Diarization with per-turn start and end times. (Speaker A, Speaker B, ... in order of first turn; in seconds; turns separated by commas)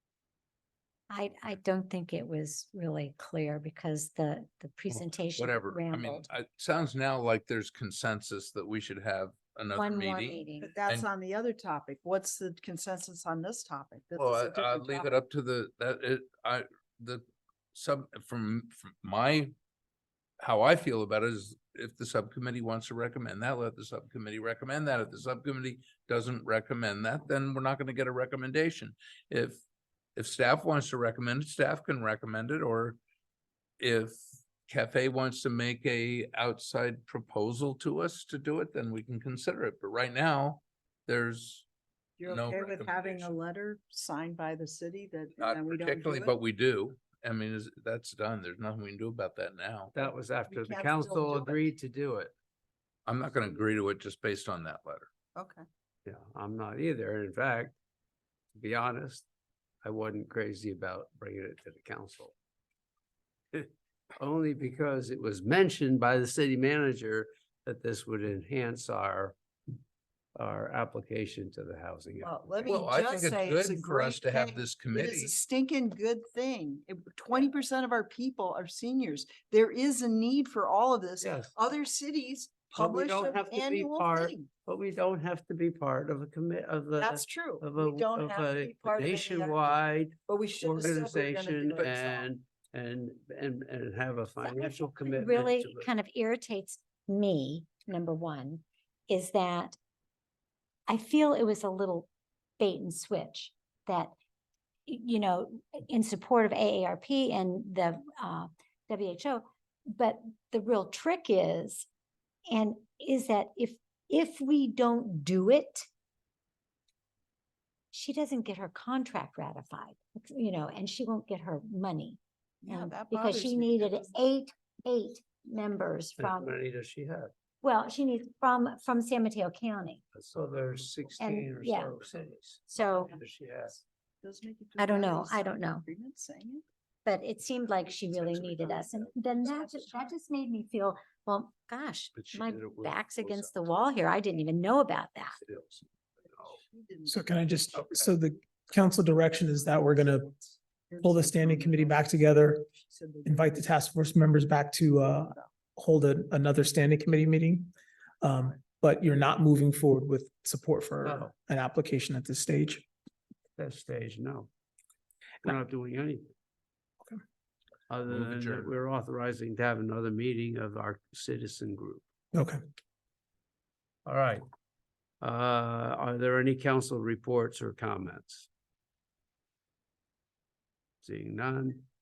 Speaker A: 1.1-6.3, Speaker B: 4.9-11.1, Speaker A: 9.8-10.8, Speaker C: 10.6-15.2, Speaker B: 14.2-19.5, Speaker B: 20.4-29.6, Speaker B: 30.2-33.0, Speaker B: 33.8-41.7, Speaker C: 42.2-46.4, Speaker B: 42.2-43.3, Speaker B: 45.4-50.0, Speaker D: 49.9-52.3, Speaker C: 50.5-51.6, Speaker B: 53.0-55.1, Speaker C: 55.4-55.6, Speaker D: 56.0-57.8, Speaker D: 58.5-59.2, Speaker D: 59.8-62.3, Speaker D: 63.5-69.3, Speaker D: 70.4-72.9, Speaker C: 72.2-84.5, Speaker B: 72.7-75.4, Speaker D: 81.2-81.5, Speaker D: 82.8-95.9, Speaker C: 87.0-92.2, Speaker B: 91.7-92.2, Speaker A: 94.5-99.8, Speaker A: 100.9-104.1, Speaker A: 104.9-111.9, Speaker A: 112.5-115.9, Speaker A: 117.9-126.5, Speaker C: 122.6-124.1, Speaker D: 126.2-127.3, Speaker A: 127.6-130.0, Speaker D: 130.1-133.8, Speaker A: 131.2-132.0, Speaker A: 132.7-133.1, Speaker C: 134.2-136.6, Speaker A: 134.8-135.9, Speaker A: 137.0-145.4, Speaker D: 137.8-140.1, Speaker D: 142.1-143.9, Speaker D: 145.4-146.6, Speaker C: 146.4-147.5, Speaker E: 147.1-150.3, Speaker D: 147.8-148.0, Speaker C: 149.9-150.1, Speaker C: 150.9-153.7, Speaker E: 151.0-152.7, Speaker E: 153.2-162.8, Speaker D: 161.0-161.3, Speaker D: 163.6-164.5, Speaker D: 165.4-166.2, Speaker D: 167.9-172.0, Speaker B: 168.0-168.7, Speaker E: 172.3-172.6, Speaker D: 174.1-174.4, Speaker D: 175.2-178.5, Speaker D: 181.0-181.8